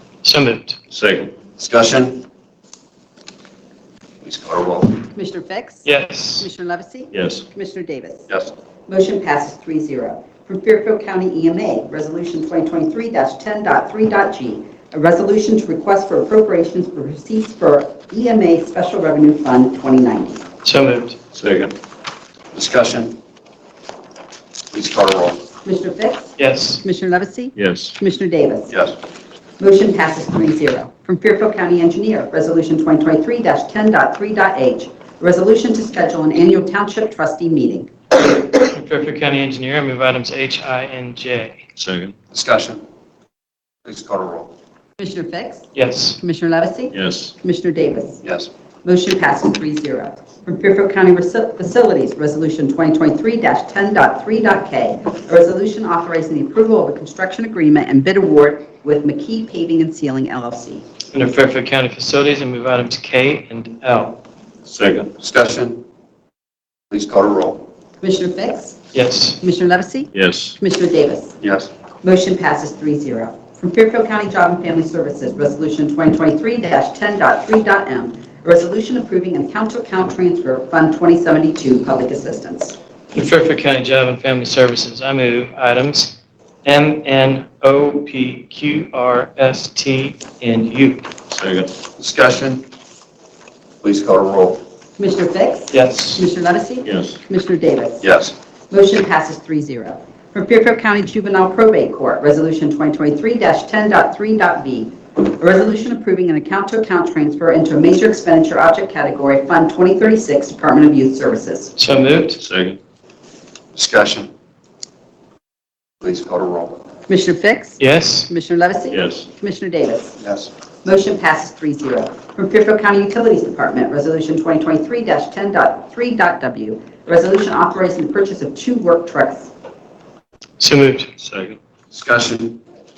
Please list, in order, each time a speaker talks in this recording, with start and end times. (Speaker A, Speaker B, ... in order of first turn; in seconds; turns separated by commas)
Speaker A: 0.2-0.8, Speaker B: 0.9-1.3, Speaker C: 1.6-2.2, Speaker C: 4.2-5.0, Speaker D: 5.1-8.3, Speaker A: 5.8-6.5, Speaker B: 7.1-7.4, Speaker D: 8.9-20.5, Speaker A: 20.6-21.2, Speaker B: 21.3-21.8, Speaker C: 22.5-23.2, Speaker C: 24.7-25.4, Speaker D: 25.6-28.7, Speaker A: 26.4-26.8, Speaker B: 27.6-27.9, Speaker C: 28.7-28.9, Speaker D: 29.6-37.9, Speaker A: 38.6-41.6, Speaker B: 41.8-42.1, Speaker C: 42.3-42.8, Speaker C: 43.8-44.5, Speaker D: 45.0-48.2, Speaker A: 45.7-46.2, Speaker B: 46.9-47.3, Speaker C: 48.2-48.5, Speaker D: 48.8-60.9, Speaker A: 61.1-64.2, Speaker B: 64.7-65.1, Speaker C: 65.2-65.8, Speaker C: 66.9-67.7, Speaker D: 68.0-68.8, Speaker A: 68.9-69.4, Speaker D: 69.4-71.4, Speaker B: 70.1-70.6, Speaker C: 71.4-71.7, Speaker D: 72.0-82.8, Speaker A: 83.1-91.1, Speaker B: 91.3-91.7, Speaker C: 92.0-92.6, Speaker C: 93.8-94.6, Speaker D: 95.0-98.0, Speaker A: 95.7-96.2, Speaker B: 96.8-97.2, Speaker C: 98.0-98.3, Speaker D: 98.7-111.8, Speaker A: 111.8-112.4, Speaker B: 112.4-112.8, Speaker C: 113.7-114.3, Speaker C: 116.0-116.8, Speaker D: 117.1-120.2, Speaker A: 117.8-118.3, Speaker B: 118.9-119.2, Speaker C: 120.2-120.5, Speaker D: 120.8-129.5, Speaker A: 130.6-131.1, Speaker B: 131.2-131.6, Speaker C: 131.9-132.6